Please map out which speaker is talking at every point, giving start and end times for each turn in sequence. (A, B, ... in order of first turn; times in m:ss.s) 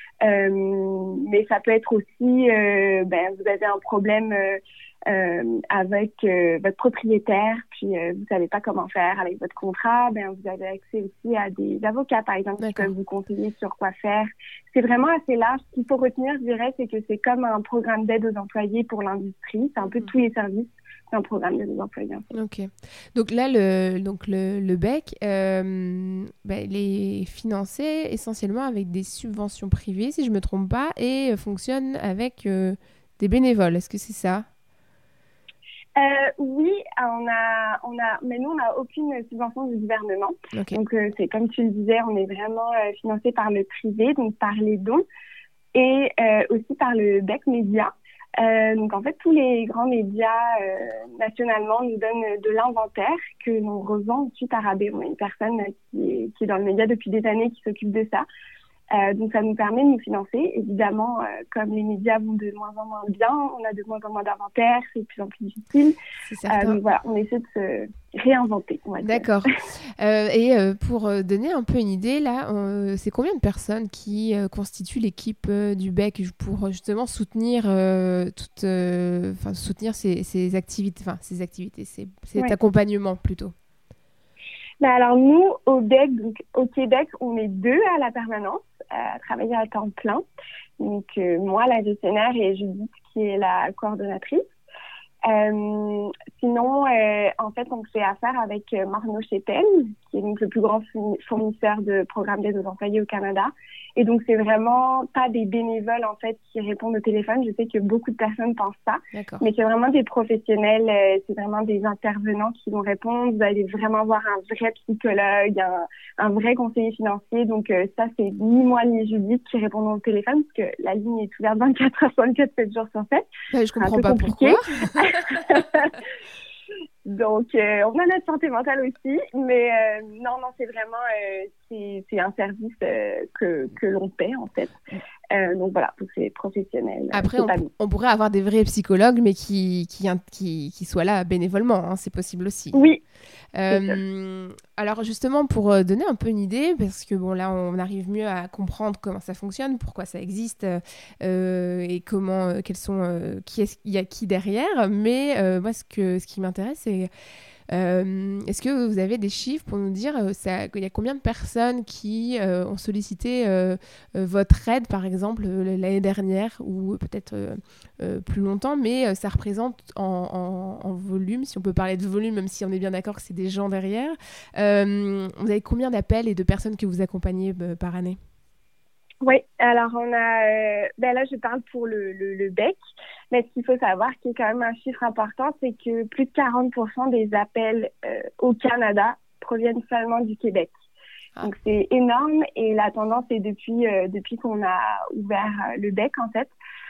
0:00.2-0:22.3 A
0:12.6-0:12.9 B
0:19.8-0:20.1 B
0:22.3-0:34.5 B
0:36.0-0:45.0 A
0:40.5-0:40.8 B
0:45.8-0:58.3 A
0:58.9-1:06.0 A
1:06.3-1:06.8 B
1:06.5-1:09.3 A
1:09.0-1:23.5 B
1:24.8-1:30.2 A
1:30.8-1:34.4 A
1:35.3-2:06.1 A
1:49.1-1:49.4 B
2:03.5-2:05.6 B
2:07.1-2:14.8 A
2:15.3-2:17.7 A
2:17.1-2:22.8 B
2:22.7-2:23.0 A
2:23.6-2:37.1 B
2:23.7-2:24.0 A
2:37.7-2:58.2 B
2:59.2-3:02.8 A
3:03.3-3:10.7 A
3:11.4-3:16.5 A